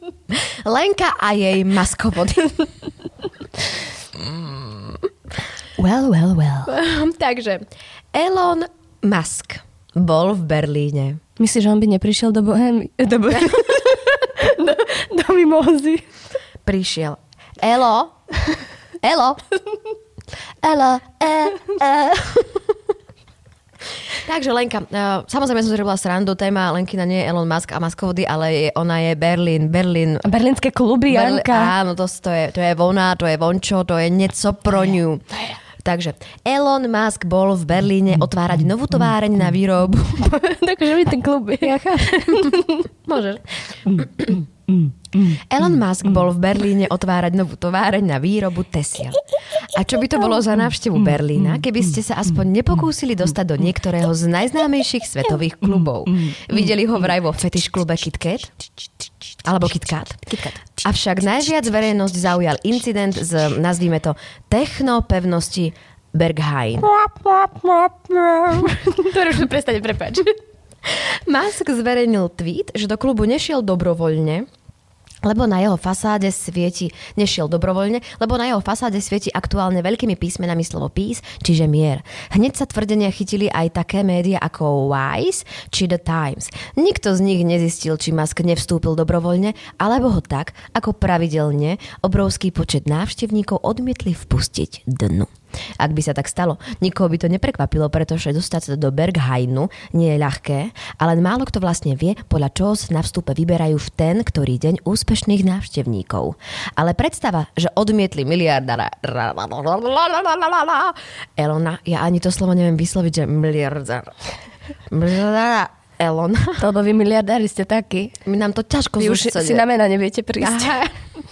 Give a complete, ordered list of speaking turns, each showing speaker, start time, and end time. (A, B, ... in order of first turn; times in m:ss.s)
0:00.3-0:02.6 A
0:04.2-0:05.0 A
0:05.8-0:06.7 B
0:06.7-0:11.2 A
0:11.4-0:16.0 B
0:16.6-0:18.1 A
0:19.0-0:19.4 A
0:20.6-0:22.7 A
0:24.2-0:30.2 A
0:30.2-0:31.7 B
0:31.1-0:40.4 A
0:40.2-0:42.9 B
0:41.6-0:43.4 A
0:43.7-0:45.4 B
0:43.9-0:44.4 A
0:45.3-0:58.5 A
0:59.4-1:06.9 A
1:00.3-1:00.8 B
1:06.8-1:10.4 B
1:10.8-1:14.5 A
1:15.2-1:54.1 A
1:54.9-1:56.6 A
1:56.6-1:58.2 B
1:58.2-1:59.6 A
1:59.0-2:00.8 B
2:00.4-2:01.0 A